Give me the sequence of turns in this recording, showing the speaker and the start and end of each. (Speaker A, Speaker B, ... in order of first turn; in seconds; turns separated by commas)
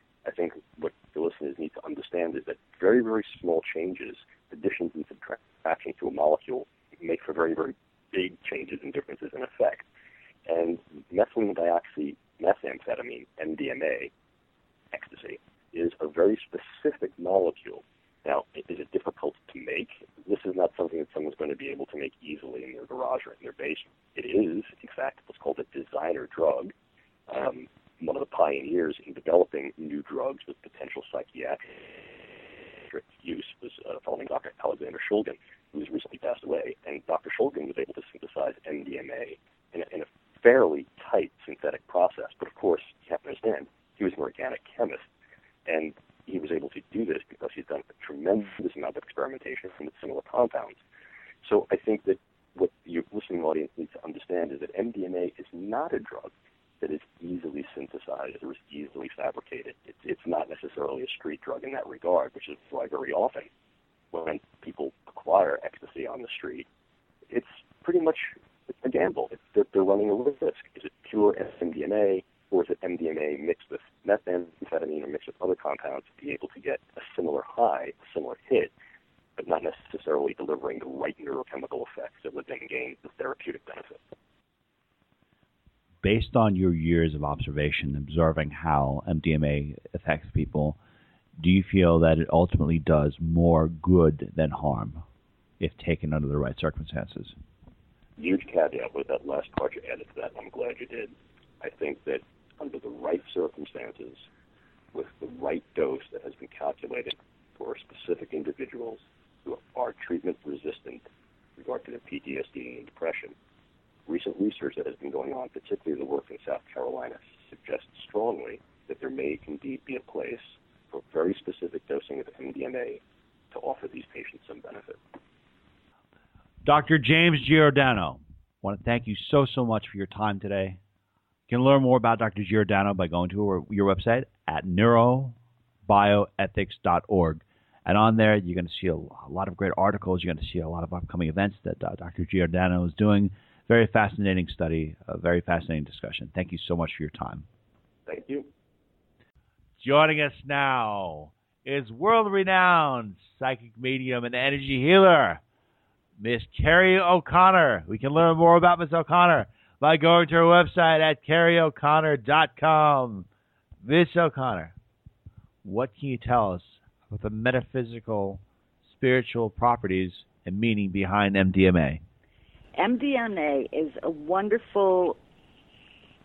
Speaker A: 0.2-9.8, Speaker A: 10.5-14.1, Speaker A: 14.9-26.7, Speaker A: 27.3-45.0, Speaker A: 45.7-50.8, Speaker A: 51.4-63.5, Speaker A: 64.1-66.7, Speaker A: 67.3-78.7, Speaker A: 79.4-84.0, Speaker B: 86.0-90.8, Speaker B: 91.4-95.0, Speaker B: 95.6-97.4, Speaker A: 98.2-104.3, Speaker A: 104.9-111.0, Speaker A: 111.6-113.3, Speaker A: 114.1-125.0, Speaker B: 126.7-130.8, Speaker B: 131.5-147.5, Speaker A: 148.1-148.5, Speaker B: 149.8-155.4, Speaker B: 156.2-163.3, Speaker B: 163.8-164.7, Speaker B: 165.6-172.0, Speaker C: 172.8-175.2